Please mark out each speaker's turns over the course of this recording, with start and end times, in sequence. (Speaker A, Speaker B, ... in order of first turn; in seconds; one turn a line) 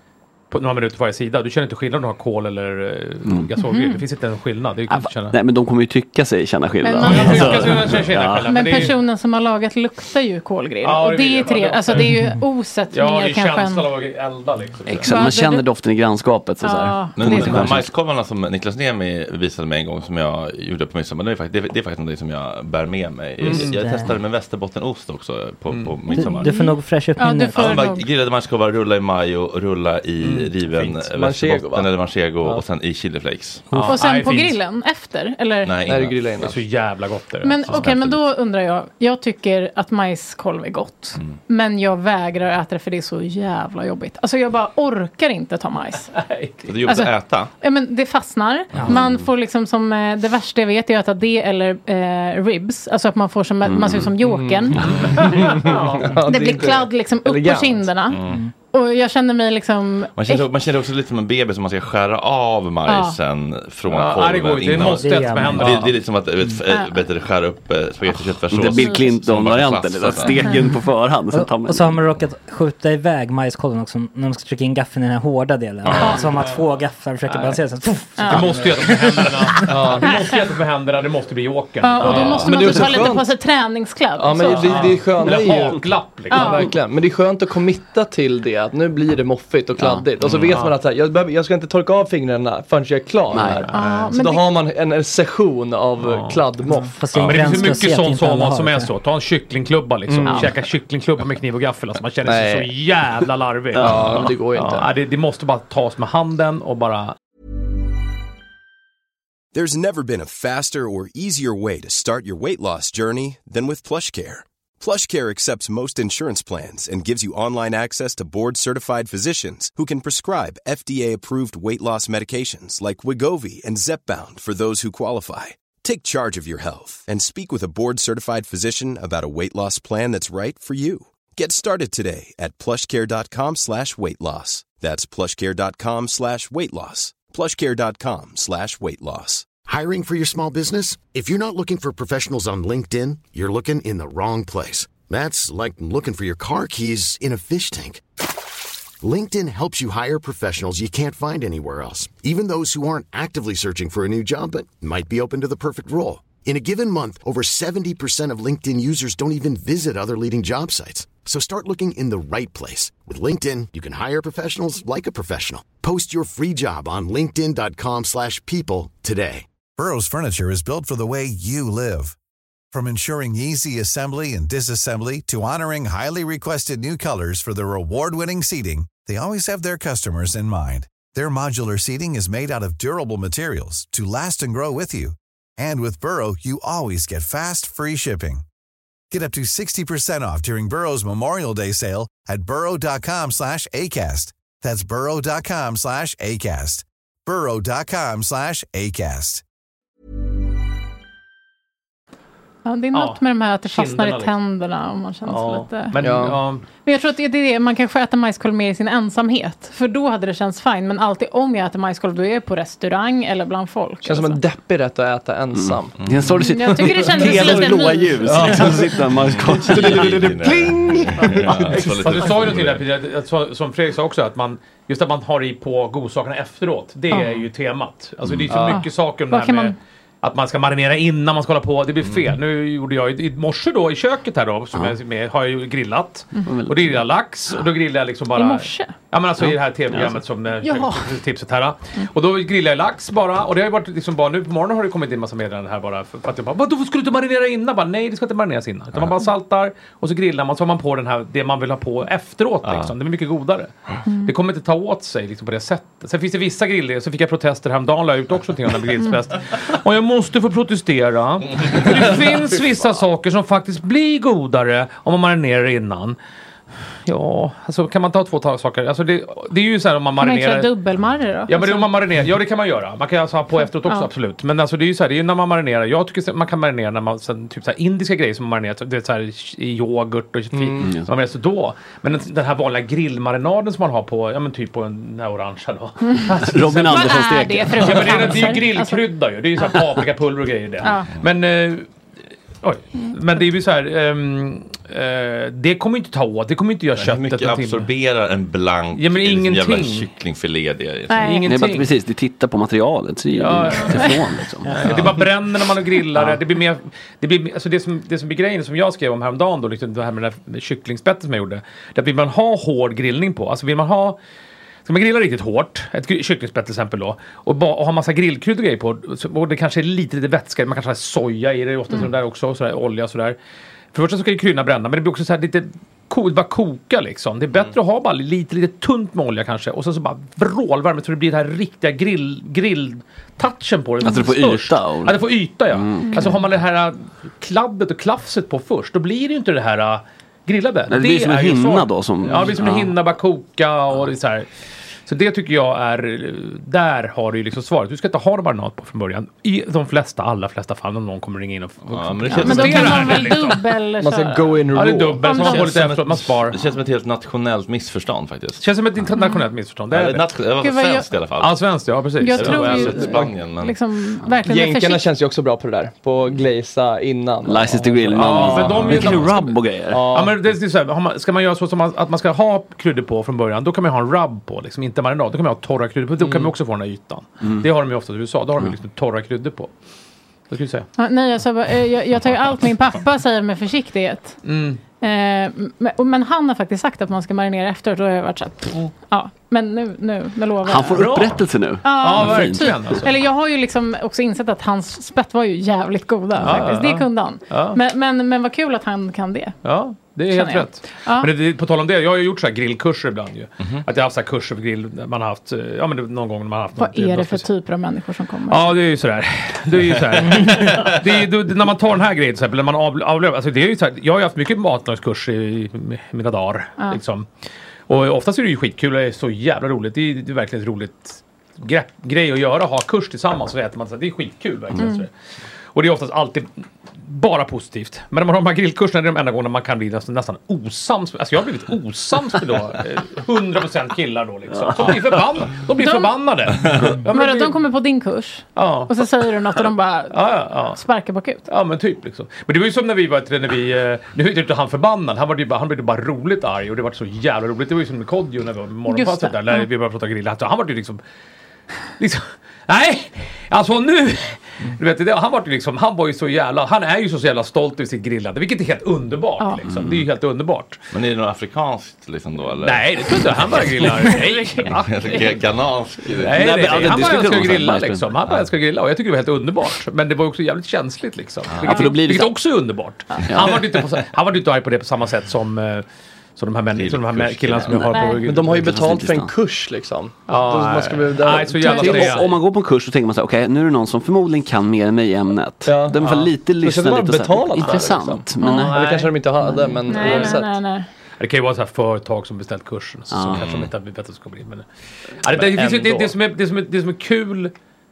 Speaker A: 0.5-5.4
Speaker B: 3.2-3.5
Speaker C: 3.6-4.0
Speaker B: 4.9-8.6
Speaker C: 6.8-7.9
Speaker A: 6.9-9.0
Speaker C: 8.5-13.9
Speaker A: 10.8-12.2
Speaker A: 12.9-15.2
Speaker B: 14.9-17.9
Speaker C: 15.1-15.7
Speaker C: 16.6-17.8
Speaker D: 17.2-26.5
Speaker A: 23.4-23.8
Speaker E: 23.5-24.1
Speaker A: 25.7-26.1
Speaker E: 26.1-27.9
Speaker C: 26.1-28.1
Speaker D: 27.5-33.7
Speaker A: 30.2-30.5
Speaker F: 30.8-31.9
Speaker A: 33.7-34.6
Speaker C: 33.9-35.7
Speaker D: 35.6-36.3
Speaker F: 35.9-36.7
Speaker A: 36.4-37.9
Speaker C: 37.4-46.2
Speaker D: 37.7-38.2
Speaker A: 46.1-46.7
Speaker D: 46.7-47.5
Speaker C: 46.9-55.4
Speaker B: 53.6-54.1
Speaker F: 54.2-57.9
Speaker A: 54.8-56.2
Speaker C: 56.2-58.2
Speaker D: 58.1-58.4
Speaker E: 58.3-58.5
Speaker C: 58.7-60.5
Speaker D: 60.2-70.7
Speaker C: 62.9-63.2
Speaker A: 63.9-66.0
Speaker E: 64.9-65.8
Speaker C: 66.7-67.0
Speaker B: 68.5-72.0
Speaker E: 71.3-79.7
Speaker D: 75.8-76.2
Speaker A: 76.2-76.7
Speaker A: 77.3-83.1
Speaker C: 78.2-78.4
Speaker F: 79.7-80.2
Speaker C: 81.8-84.9
Speaker F: 82.0-83.3
Speaker F: 84.2-97.0
Speaker A: 84.4-86.8
Speaker C: 86.3-86.7
Speaker B: 89.8-90.1
Speaker D: 90.2-90.5
Speaker A: 90.4-90.8
Speaker B: 93.3-93.7
Speaker A: 93.4-94.2
Speaker C: 93.7-94.5
Speaker A: 96.0-96.4
Speaker E: 96.7-98.9
Speaker A: 97.1-107.2
Speaker D: 97.1-97.5
Speaker F: 100.1-100.5
Speaker F: 102.2-102.7
Speaker F: 103.8-104.9
Speaker B: 103.8-104.3
Speaker G: 109.5-139.6
Speaker H: 139.6-148.0
Speaker H: 149.0-169.5
Speaker I: 169.8-172.2
Speaker I: 172.7-188.4
Speaker I: 189.1-199.4
Speaker C: 202.7-206.0
Speaker A: 202.9-204.3
Speaker A: 205.3-206.7
Speaker F: 206.0-206.4
Speaker C: 206.8-214.4
Speaker F: 214.0-216.0
Speaker B: 215.5-220.4
Speaker D: 216.0-216.3
Speaker C: 216.4-218.5
Speaker F: 216.7-218.9
Speaker A: 218.3-218.8
Speaker D: 219.1-222.8
Speaker F: 219.6-222.4
Speaker A: 221.8-266.2
Speaker C: 227.1-227.4
Speaker C: 228.5-229.8
Speaker B: 236.5-237.0
Speaker C: 238.4-238.9
Speaker B: 239.5-240.2
Speaker C: 240.6-241.0
Speaker D: 252.7-252.9
Speaker A: 267.1-270.7
Speaker C: 270.2-271.9
Speaker A: 271.5-291.9
Speaker C: 273.6-274.1
Speaker F: 280.5-280.9
Speaker B: 280.8-281.1
Speaker B: 286.4-288.6
Speaker C: 286.9-289.0
Speaker C: 290.8-291.1
Speaker A: 292.6-297.9
Speaker D: 297.0-301.4
Speaker A: 298.9-300.1
Speaker C: 301.1-301.5
Speaker A: 301.1-301.9
Speaker B: 301.5-305.0
Speaker A: 303.3-314.2
Speaker A: 314.9-323.4
Speaker A: 323.9-344.5
Speaker B: 334.0-336.4
Speaker C: 336.1-336.4
Speaker B: 340.9-342.9
Speaker A: 345.1-353.7
Speaker D: 351.9-353.3
Speaker C: 352.3-354.6
Speaker F: 354.0-355.5
Speaker A: 354.7-356.6
Speaker C: 355.2-355.7
Speaker D: 355.4-358.6
Speaker A: 358.6-360.3
Speaker C: 359.1-359.4
Speaker D: 359.9-361.8
Speaker C: 360.6-361.1
Speaker A: 361.4-363.4
Speaker C: 362.2-365.1
Speaker D: 362.3-363.8
Speaker F: 364.4-369.3
Speaker B: 367.4-370.0
Speaker A: 367.7-379.7
Speaker F: 369.9-370.4
Speaker F: 376.2-376.5
Speaker A: 380.5-380.9
Speaker C: 381.0-384.4
Speaker A: 384.4-384.8
Speaker C: 385.0-391.1
Speaker B: 390.6-393.0
Speaker A: 390.9-393.2
Speaker C: 391.8-399.6
Speaker A: 396.4-397.8
Speaker A: 399.6-407.5
Speaker C: 400.3-401.3
Speaker C: 406.8-408.7
Speaker A: 408.5-417.3
Speaker A: 417.9-425.1
Speaker C: 424.8-425.0
Speaker A: 425.7-437.6
Speaker C: 435.8-436.1
Speaker C: 437.1-441.5
Speaker A: 438.6-439.0
Speaker A: 440.1-440.8
Speaker A: 441.5-451.0
Speaker C: 448.9-449.7
Speaker A: 452.0-460.8
Speaker B: 459.7-460.0
Speaker D: 460.9-464.0
Speaker A: 462.6-465.5
Speaker C: 464.0-465.2
Speaker D: 464.6-467.3
Speaker A: 466.1-475.9
Speaker B: 466.4-468.1
Speaker D: 471.5-472.0
Speaker B: 471.6-472.3
Speaker B: 473.3-473.6
Speaker D: 473.3-473.9
Speaker A: 476.4-478.9
Speaker D: 476.7-478.0
Speaker C: 477.9-478.2
Speaker F: 478.2-482.2
Speaker B: 478.5-479.3
Speaker A: 480.3-482.4
Speaker C: 481.6-482.1
Speaker B: 481.7-488.8
Speaker F: 485.6-490.6
Speaker A: 486.0-486.3
Speaker A: 487.6-489.3
Speaker C: 488.4-488.7
Speaker B: 489.4-490.1
Speaker C: 489.9-490.9
Speaker A: 489.9-490.4
Speaker A: 491.2-494.7
Speaker B: 493.1-493.5
Speaker D: 493.4-493.7
Speaker A: 495.2-497.5